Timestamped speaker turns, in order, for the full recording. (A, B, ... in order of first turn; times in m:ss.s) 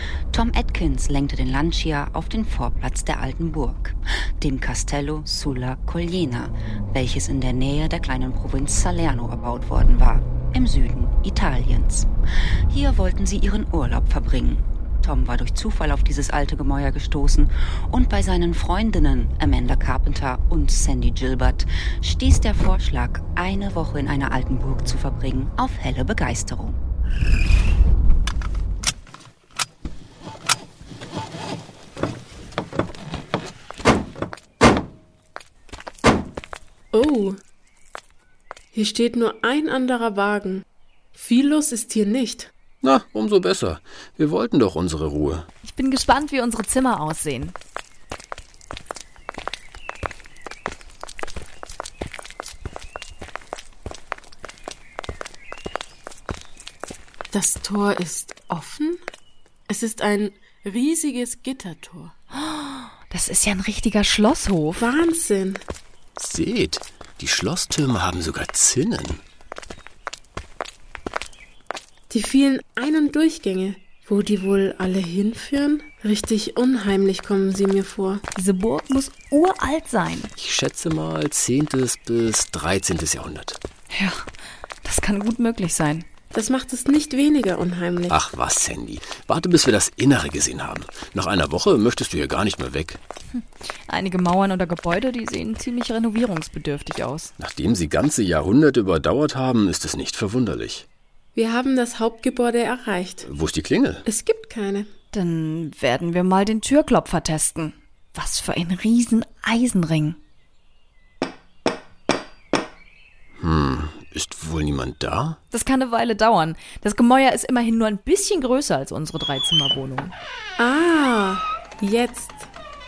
0:00.3-0:12.1 A
0:12.7-0:26.8 A
0:36.9-0:37.4 B
0:38.7-0:42.5 B
0:42.8-0:45.5 C
0:45.6-0:47.5 D
0:57.3-0:59.0 B
0:59.7-1:02.1 B
1:02.3-1:04.9 D
1:04.8-1:05.6 B
1:06.2-1:09.2 C
1:12.1-1:18.2 B
1:18.3-1:20.3 D
1:20.4-1:23.6 C
1:23.9-1:24.3 D
1:24.8-1:26.0 D
1:26.3-1:28.2 B
1:28.1-1:33.0 C
1:33.3-1:37.3 D
1:37.4-1:40.8 C
1:41.3-1:43.2 B
1:43.2-1:44.0 C
1:44.0-1:44.9 B
1:45.1-1:50.2 D
1:53.4-1:55.4 C
1:55.5-2:00.1 D
2:00.6-2:02.5 B